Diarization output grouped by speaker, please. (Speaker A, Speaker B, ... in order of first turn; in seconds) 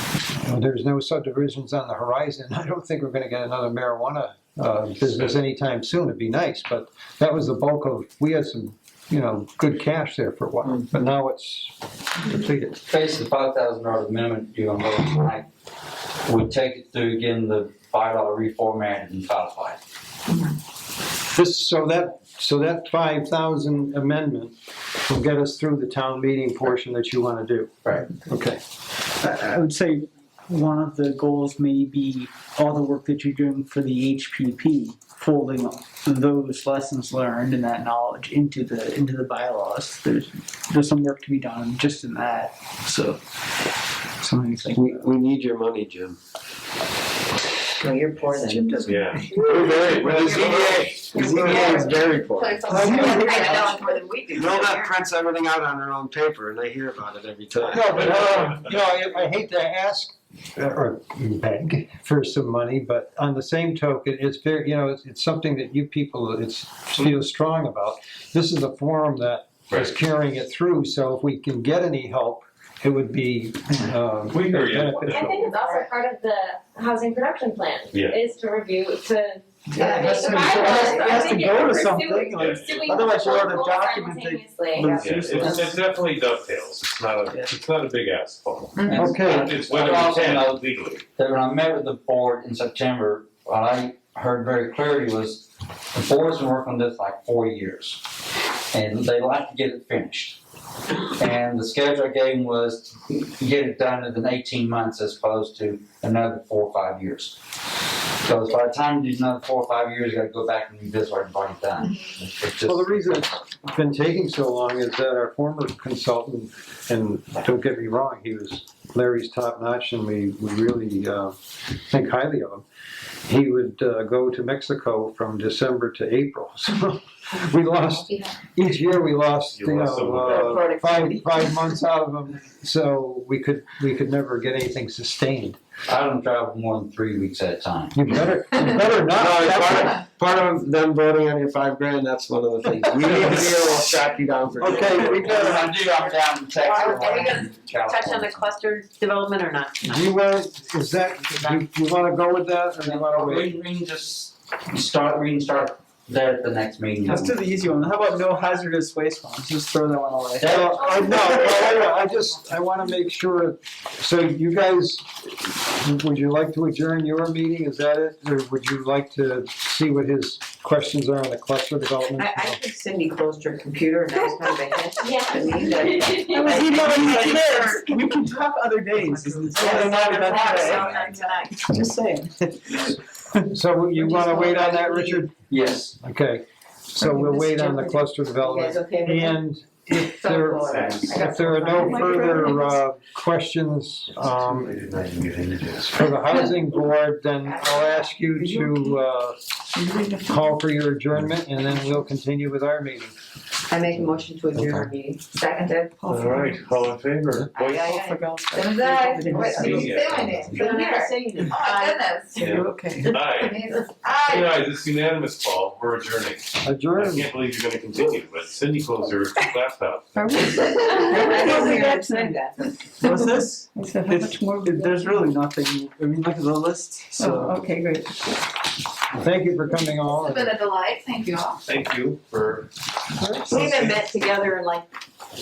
Speaker A: 0.4-12.8, 21.3-28.6, 51.2-51.7, 52.7-53.6, 57.7-75.3, 88.9-89.6, 112.7-122.7, 123.2-135.6, 137.9-140.0, 143.2-143.4, 144.6-145.7, 149.8-153.5, 160.4-172.6, 183.5-185.3, 186.0-194.9, 195.8-199.6, 200.2-203.2, 216.6-217.3, 229.1-230.6, 233.2-233.5
Speaker B: 12.9-15.5, 16.2-19.8, 88.8-100.4, 101.2-107.4, 108.2-113.2, 135.9-138.1, 143.2-143.7, 144.7-148.5, 152.8-157.3, 160.4-161.3, 185.5-186.0
Speaker C: 29.2-43.2, 44.2-45.1, 48.3-49.7, 51.6-52.0, 52.7-53.5, 79.7-85.8, 157.0-160.6, 176.2-183.5, 191.8-192.3, 207.8-209.7, 212.7-213.1, 221.1-222.4, 223.0-227.6
Speaker D: 44.7-46.2, 49.5-53.1, 54.3-58.5, 139.0-145.4
Speaker E: 47.8-48.8, 51.1-54.9, 75.5-75.9, 79.8-81.3, 84.8-85.2, 130.1-131.5, 146.6-150.1, 172.2-178.0, 179.2-181.6, 184.0-185.2, 187.0-189.4, 189.9-192.6, 197.4-198.2, 203.7-206.1, 207.5-212.6, 213.4-214.1, 220.4-222.7, 227.4-228.1, 233.5-234.9
Speaker F: 48.9-51.2, 58.0-58.5, 74.3-75.5, 77.9-78.2, 81.4-82.9, 85.0-91.0, 129.5-130.7, 190.7-191.1, 194.3-195.9, 206.1-208.0, 209.7-210.8, 212.3-220.6, 231.7-232.7, 233.5-234.0
Speaker G: 51.4-51.7, 53.3-53.9, 208.6-209.9, 210.8-213.9, 220.3-222.1, 223.8-225.1, 230.1-231.6
Speaker H: 75.1-85.0, 175.0-176.6